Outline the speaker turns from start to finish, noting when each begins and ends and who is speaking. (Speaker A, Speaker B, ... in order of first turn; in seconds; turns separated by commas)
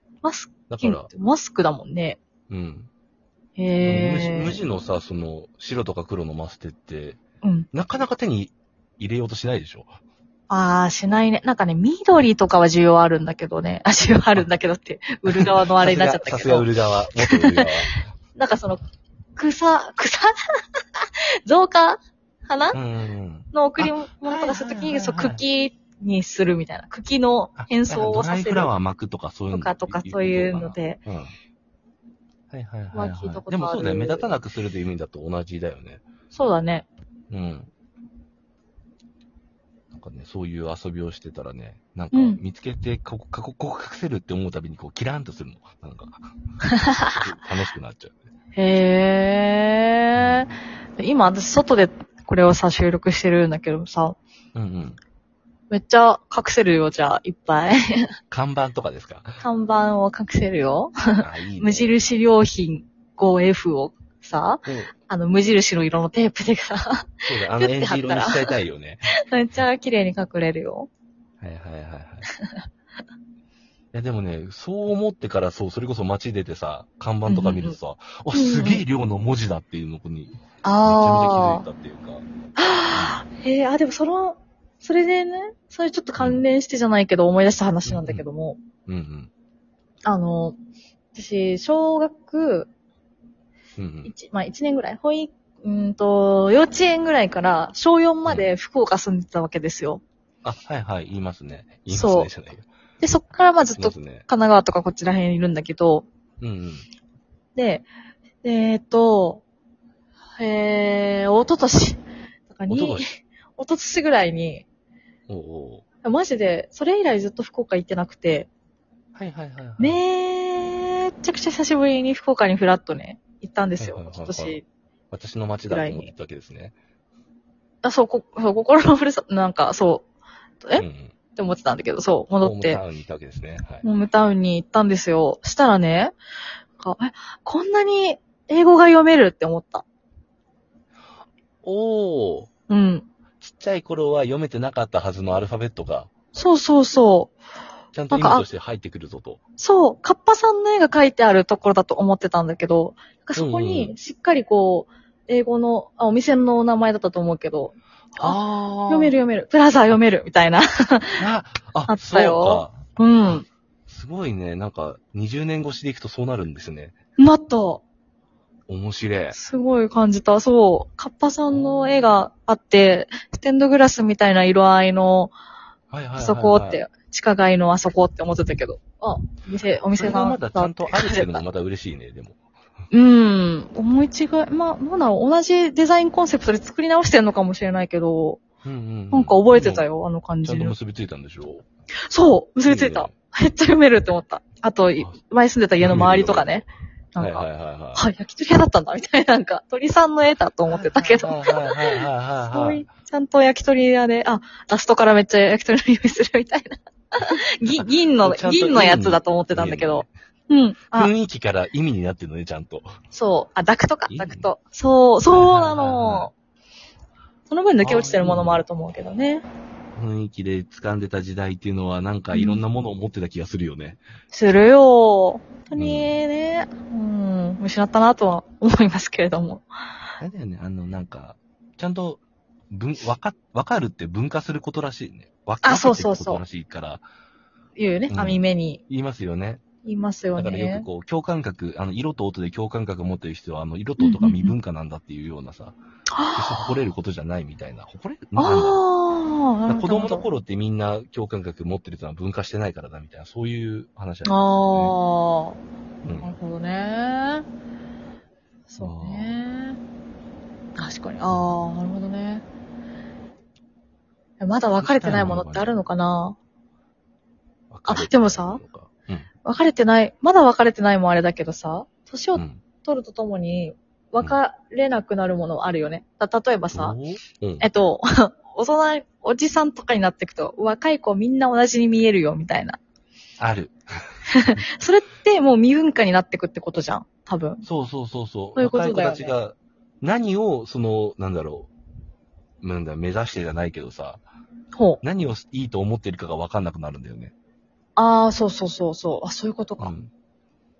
Speaker A: 0.2-2.2, Speaker B: 0.7-1.1, Speaker B: 2.5-2.9, Speaker A: 3.6-4.6, Speaker B: 3.8-7.2, Speaker A: 7.4-7.7, Speaker B: 7.7-9.9, Speaker A: 10.5-17.7, Speaker B: 15.3-18.0, Speaker A: 18.4-18.8, Speaker A: 19.4-22.8, Speaker B: 22.7-25.4, Speaker A: 23.5-28.7, Speaker B: 27.6-31.3, Speaker A: 29.5-31.0, Speaker B: 32.5-36.0, Speaker A: 32.9-34.3, Speaker A: 36.3-36.9, Speaker B: 37.3-37.7, Speaker B: 39.9-46.2, Speaker A: 42.1-42.4, Speaker B: 47.0-48.1, Speaker A: 48.5-54.2, Speaker B: 50.1-50.5, Speaker B: 54.5-55.0, Speaker A: 55.7-58.1, Speaker B: 58.3-59.4, Speaker A: 59.4-68.5, Speaker B: 61.2-61.9, Speaker B: 64.7-64.9, Speaker B: 67.2-69.1, Speaker A: 69.2-70.9, Speaker B: 71.4-72.3, Speaker A: 72.3-72.6, Speaker B: 73.9-82.2, Speaker A: 77.3-77.8, Speaker A: 78.3-78.8, Speaker A: 80.6-81.7, Speaker A: 82.6-88.6, Speaker B: 82.9-83.2, Speaker B: 86.2-86.4, Speaker B: 87.8-88.2, Speaker B: 88.9-89.3, Speaker A: 90.0-90.5, Speaker A: 91.1-92.7, Speaker B: 93.8-94.1, Speaker A: 94.0-100.0, Speaker B: 100.4-102.7, Speaker A: 101.9-102.3, Speaker A: 103.0-106.0, Speaker B: 103.8-104.2, Speaker B: 106.4-106.8, Speaker A: 107.5-107.9, Speaker A: 108.4-109.4, Speaker A: 110.3-114.6, Speaker B: 112.7-113.0, Speaker B: 115.3-115.8, Speaker A: 116.0-118.5, Speaker B: 119.1-120.0, Speaker A: 119.8-124.6, Speaker B: 123.8-124.6, Speaker B: 125.1-126.7, Speaker A: 125.7-126.1, Speaker A: 127.8-130.1, Speaker B: 130.8-131.1, Speaker A: 131.3-132.8, Speaker B: 132.4-133.8, Speaker A: 133.8-136.2, Speaker A: 136.8-139.8, Speaker B: 141.6-142.5, Speaker A: 142.7-143.1, Speaker B: 143.4-146.1, Speaker A: 146.3-147.3, Speaker B: 147.9-149.4, Speaker A: 148.1-148.4, Speaker A: 149.6-158.4, Speaker B: 153.3-153.9, Speaker B: 158.2-159.2, Speaker A: 158.9-161.2, Speaker B: 161.2-166.9, Speaker A: 161.9-163.4, Speaker A: 167.2-167.8, Speaker B: 168.7-169.4, Speaker A: 169.3-175.3, Speaker B: 171.5-172.2, Speaker B: 175.9-176.8, Speaker A: 176.2-181.4, Speaker B: 179.9-182.4, Speaker A: 182.9-188.4, Speaker B: 188.6-189.8, Speaker A: 189.1-190.7, Speaker B: 190.4-191.6, Speaker A: 192.1-211.1, Speaker B: 192.7-193.1, Speaker B: 195.8-196.6, Speaker B: 197.2-198.0, Speaker B: 200.7-202.8, Speaker B: 207.7-210.1, Speaker B: 210.9-212.9, Speaker A: 213.1-216.3, Speaker B: 214.1-214.5, Speaker B: 215.3-216.3, Speaker A: 217.5-219.4, Speaker B: 217.8-218.6, Speaker B: 219.9-224.0, Speaker A: 222.3-222.6, Speaker A: 224.3-229.6, Speaker B: 225.8-226.2, Speaker B: 230.2-237.0, Speaker A: 235.6-236.4, Speaker A: 237.8-238.8, Speaker B: 238.1-239.6, Speaker A: 239.8-240.9, Speaker B: 240.3-245.8, Speaker A: 244.0-244.6, Speaker A: 246.1-246.7, Speaker B: 246.3-248.8, Speaker A: 248.3-250.2, Speaker B: 249.7-254.9, Speaker A: 254.2-255.6, Speaker B: 256.0-256.3, Speaker A: 256.2-257.4, Speaker A: 258.7-259.8, Speaker B: 258.8-259.4, Speaker A: 260.8-262.4, Speaker A: 264.4-266.4, Speaker B: 264.8-265.7, Speaker B: 267.7-269.3, Speaker A: 267.9-268.6, Speaker A: 269.4-277.0, Speaker B: 272.3-272.6, Speaker B: 276.7-277.6, Speaker A: 277.6-282.8, Speaker B: 283.4-283.8, Speaker A: 284.3-287.6, Speaker B: 287.6-291.7, Speaker A: 288.6-289.3, Speaker B: 292.6-294.2, Speaker A: 294.7-295.0, Speaker B: 295.0-297.3, Speaker A: 297.9-299.9, Speaker B: 299.8-300.1